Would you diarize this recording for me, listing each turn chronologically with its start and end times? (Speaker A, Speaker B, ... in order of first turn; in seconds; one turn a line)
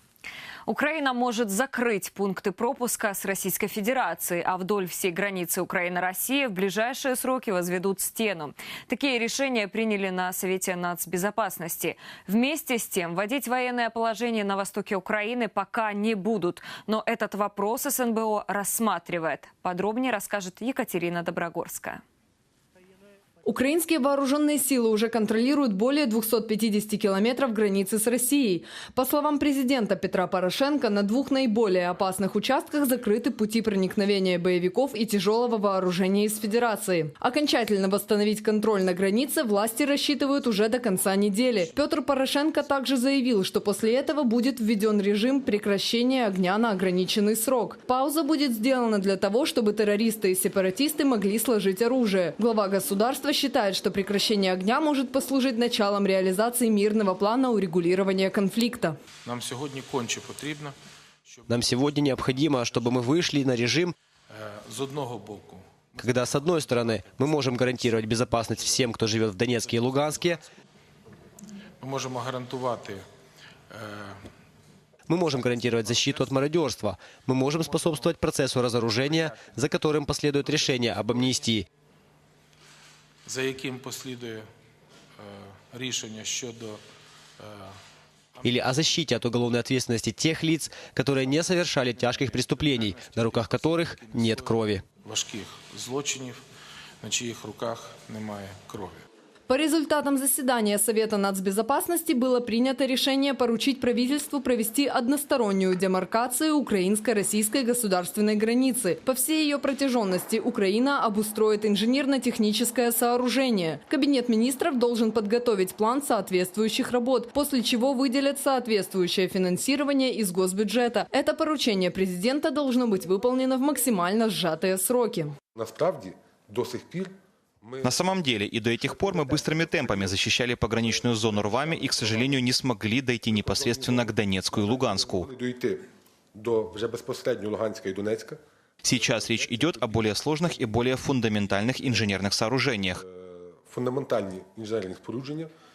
Speaker A: 0.7-22.0
Speaker B: 23.4-59.0
Speaker C: 59.2-60.7
Speaker C: 61.3-61.8
Speaker D: 61.5-63.9
Speaker C: 64.3-67.2
Speaker D: 66.0-70.4
Speaker C: 71.8-73.0
Speaker C: 73.7-74.2
Speaker D: 75.1-81.7
Speaker C: 83.2-84.4
Speaker C: 85.2-86.8
Speaker C: 87.4-87.7
Speaker D: 88.4-94.8
Speaker C: 92.9-93.7
Speaker C: 94.3-96.4
Speaker C: 97.0-99.0
Speaker B: 99.5-125.3
Speaker E: 125.5-128.0
Speaker F: 127.8-135.3
Speaker E: 130.9-132.2
Speaker E: 133.3-138.4
Speaker F: 138.8-143.0
Speaker E: 143.0-145.5